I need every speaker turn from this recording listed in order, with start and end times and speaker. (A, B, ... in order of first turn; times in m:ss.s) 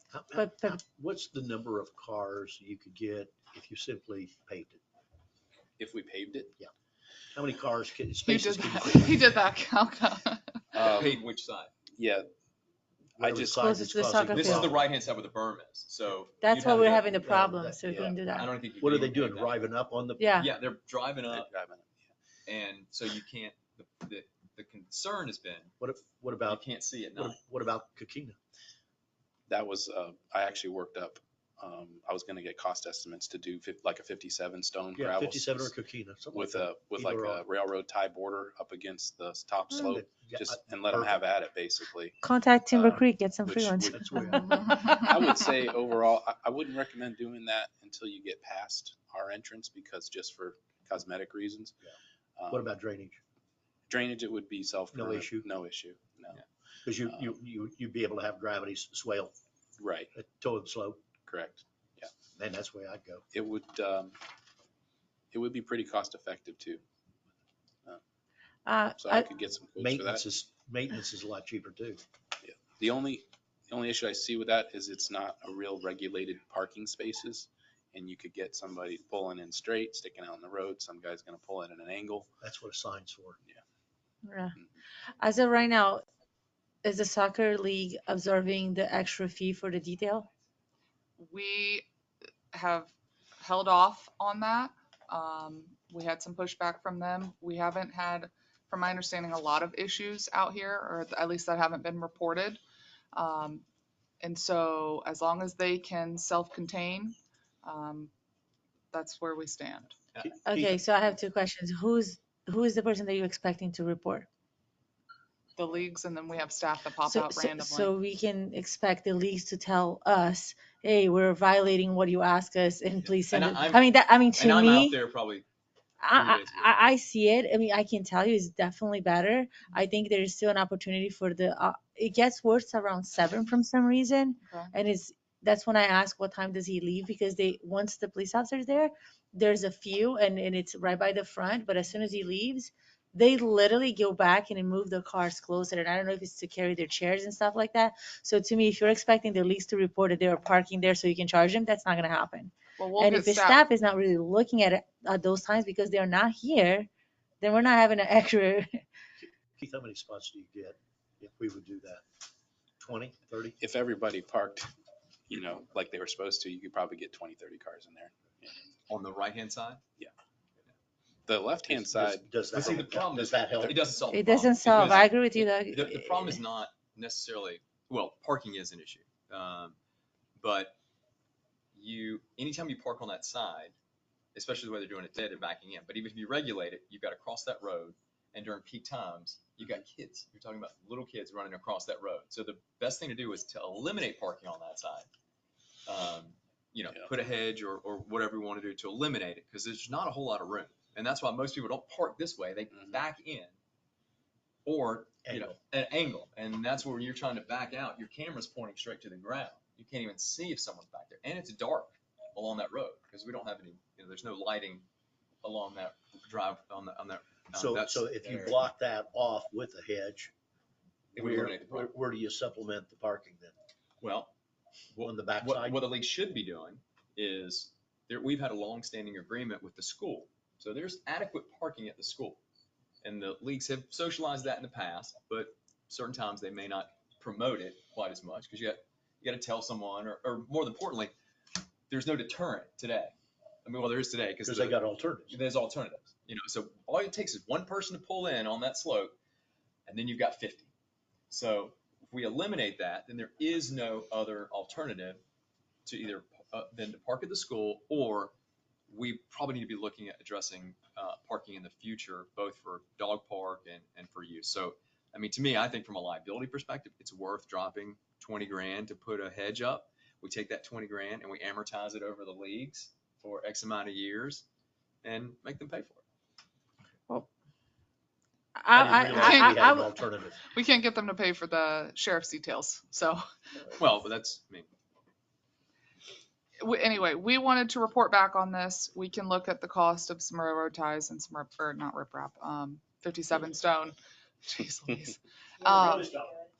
0:00.1-0:04.8 A
0:00.3-0:00.8 B
0:05.8-0:06.5 C
0:07.3-0:09.4 A
0:08.3-0:10.6 D
0:10.7-0:11.2 C
0:10.9-0:11.7 E
0:12.0-0:12.3 C
0:13.2-0:14.9 A
0:13.2-0:13.5 C
0:13.5-0:14.7 B
0:14.3-0:17.0 E
0:16.4-0:18.5 B
0:16.6-0:17.8 A
0:17.8-0:18.2 C
0:18.3-0:19.6 E
0:18.8-0:20.2 A
0:20.2-0:20.5 B
0:20.4-0:21.5 E
0:21.3-0:22.0 C
0:22.4-0:25.7 E
0:25.8-0:26.6 A
0:26.5-0:27.4 E
0:27.2-0:28.4 A
0:29.5-0:35.7 C
0:35.0-0:37.4 A
0:36.3-0:42.2 C
0:39.8-0:41.2 A
0:42.2-0:44.6 B
0:42.7-0:44.0 C
0:43.9-0:44.6 A
0:44.8-0:51.8 C
0:52.4-0:52.6 C
0:52.5-0:53.2 A
0:53.9-0:56.4 C
0:54.9-0:55.4 A
0:56.8-0:59.3 A
0:59.8-1:00.1 C
1:00.1-1:01.0 A
1:01.3-1:02.1 C
1:02.3-1:03.2 A
1:03.3-1:04.2 C
1:05.3-1:06.8 C
1:08.6-1:09.2 B
1:09.0-1:10.2 C
1:09.8-1:12.0 A
1:12.4-1:22.3 C
1:22.4-1:23.4 A
1:24.2-1:24.6 B
1:25.2-1:26.0 B
1:26.8-1:30.3 B
1:31.2-1:31.9 D
1:32.5-1:42.6 D
1:43.1-1:43.6 D
1:44.2-1:48.1 D
1:48.9-1:49.9 D
1:50.2-1:50.8 A
1:50.4-1:54.3 B
1:55.6-1:57.9 D
1:57.0-2:05.0 B
2:03.0-2:05.4 E
2:06.0-2:36.9 B
2:06.1-2:06.9 E
2:14.4-2:14.7 D
2:32.8-2:33.6 D
2:37.4-2:38.8 B
2:39.6-2:42.0 A
2:42.8-2:43.6 A
2:43.6-2:44.7 C
2:45.3-2:48.6 C
2:48.9-2:49.8 E
2:51.3-2:52.3 C
2:51.7-2:53.8 A
2:52.5-2:59.8 E
2:54.1-2:56.4 B
3:00.4-3:00.8 E
3:01.7-3:03.7 E
3:04.3-3:15.1 E
3:15.8-3:23.5 E
3:22.7-3:23.0 C
3:24.6-3:34.8 E
3:25.2-3:25.6 A
3:35.4-3:38.6 E
3:37.5-3:40.3 A
3:41.1-3:43.6 A
3:41.2-3:41.9 E
3:44.0-3:44.3 E
3:44.9-3:52.4 E
3:45.0-3:45.8 A
3:53.0-4:01.1 E
4:01.9-4:09.2 E
4:04.4-4:05.4 A
4:09.8-4:10.7 E
4:11.3-4:15.2 E
4:15.8-4:18.3 E
4:18.9-4:34.4 E
4:35.0-4:36.0 E
4:38.6-4:39.9 B
4:38.7-4:40.4 A
4:39.1-4:39.7 D
4:40.5-4:43.2 D
4:43.8-4:44.7 E
4:46.6-4:56.2 D
4:55.6-4:56.4 A